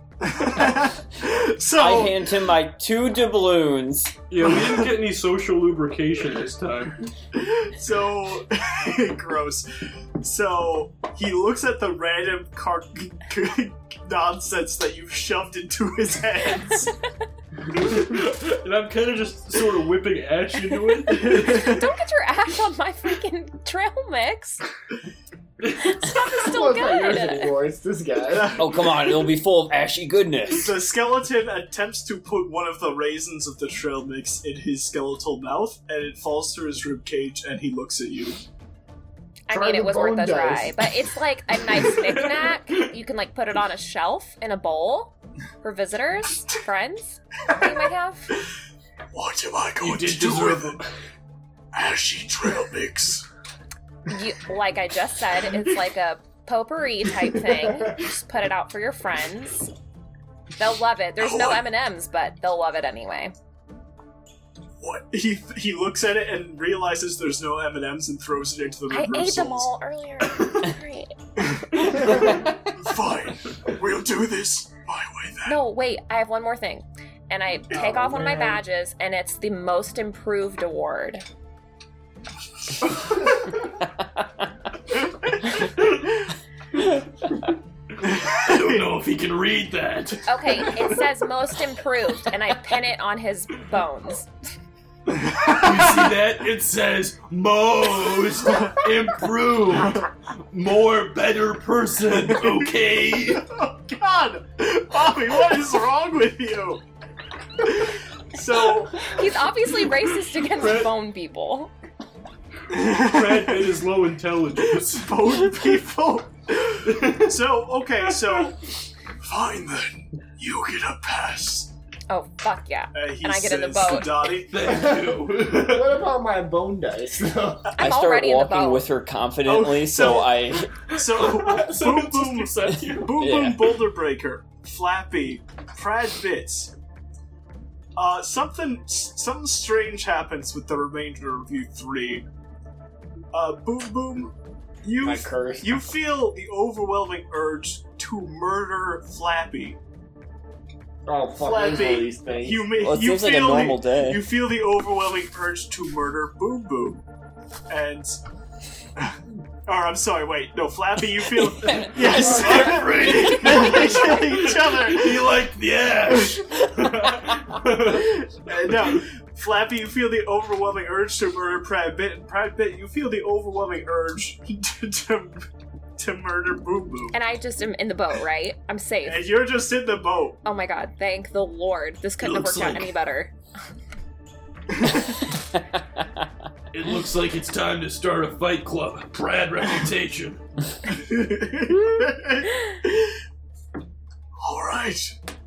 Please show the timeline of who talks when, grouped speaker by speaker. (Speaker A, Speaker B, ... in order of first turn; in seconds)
Speaker A: 0.2-2.3, 7.3-9.7, 10.2-16.9, 21.2-21.8, 28.2-29.3, 30.5-38.4, 49.1-50.8, 51.7-53.2, 61.2-61.6, 64.8-69.7, 71.4-75.6, 88.0-88.8, 95.1-96.0, 98.5-98.8, 103.4-106.8, 107.6-109.1, 112.7-113.7, 114.6-118.6, 119.2-121.7, 122.9-124.5, 129.4-136.7, 137.9-142.2, 143.3-149.8, 151.4-157.0, 157.7-158.2, 159.0-165.3, 166.1-166.5, 167.8-175.4, 176.0-177.2, 179.0-180.4, 190.9-193.2, 194.4-195.1
Speaker B: 1.8-4.2, 28.6-30.7, 84.0-84.2, 127.8-130.7, 133.1-133.7, 152.8-154.2, 161.4-162.6, 185.5-186.3
Speaker C: 4.3-7.0, 17.6-21.9, 25.6-26.0, 41.8-42.9, 49.8-50.9, 71.8-72.2, 85.6-86.0, 88.2-91.0, 95.4-103.5, 110.4-110.9, 113.0-115.1, 116.8-117.3, 118.1-118.5, 124.5-125.9, 130.8-133.1, 161.8-169.0, 182.2-182.9, 186.7-190.4
Speaker D: 20.7-24.6, 25.8-27.6, 39.5-48.3, 54.1-59.7, 60.6-63.3, 68.9-71.1, 75.4-81.2, 90.2-94.3, 109.0-111.7, 122.1-124.3, 127.8-128.8, 177.1-179.3, 180.4-183.3
Speaker E: 26.3-28.6, 39.5-40.9, 57.7-58.0, 77.7-78.6, 124.6-127.7, 145.0-145.8, 151.1-152.7, 162.0-163.1